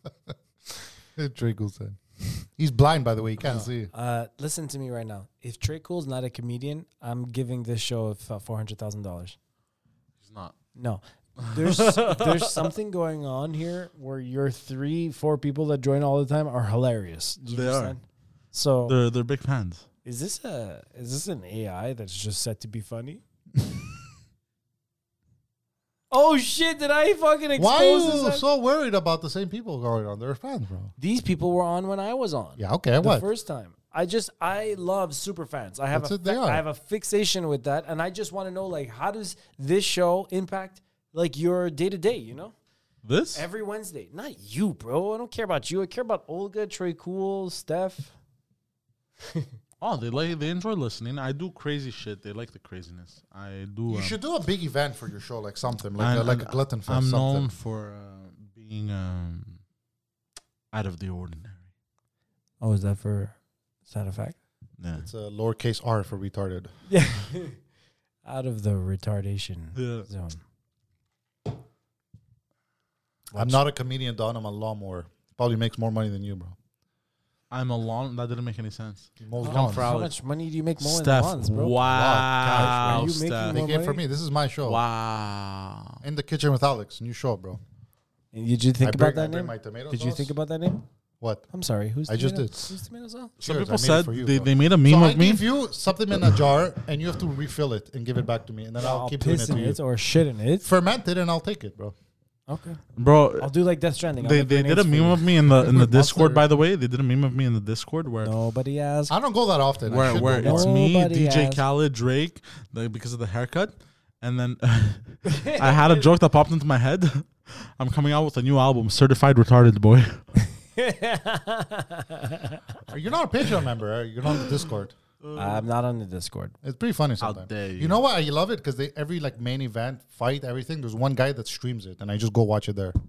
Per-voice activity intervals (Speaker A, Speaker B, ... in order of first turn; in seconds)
Speaker A: 1.2-2.0, 2.6-3.9, 27.6-30.9, 32.6-33.3, 35.9-36.6, 53.9-57.5, 65.0-66.7, 73.3-76.6, 79.2-79.9, 81.8-84.8, 86.0-87.6, 88.8-90.3, 91.2-91.5, 92.1-92.7, 93.4-99.8, 100.6-101.9, 105.6-106.4, 109.1-110.8, 122.9-124.9, 126.6-132.9
Speaker B: 3.4-9.4, 10.8-19.0, 20.1-23.2, 26.1-28.4, 31.0-42.5, 43.4-48.1, 49.2-49.5, 62.6-63.4, 63.9-64.4, 66.9-67.6, 68.2-70.4, 73.3-73.6, 79.4-81.8, 82.5-84.0, 88.3-90.9, 91.5-93.3, 98.8-100.7, 102.5-102.8, 103.4-106.2, 108.2-109.1, 110.0-111.6, 115.3-116.1, 120.8-122.8, 125.3-126.5
Speaker C: 10.2-10.6, 11.4-12.6, 17.5-17.9, 18.9-19.9, 43.0-43.4, 49.8-54.2, 56.0-59.6, 60.7-61.6, 64.8-65.1, 69.8-70.1, 77.5-80.1, 80.8-83.6, 84.7-86.0, 93.4-95.5, 103.0-103.5, 104.2-108.3, 109.9-120.2, 125.2-125.7, 127.2-128.0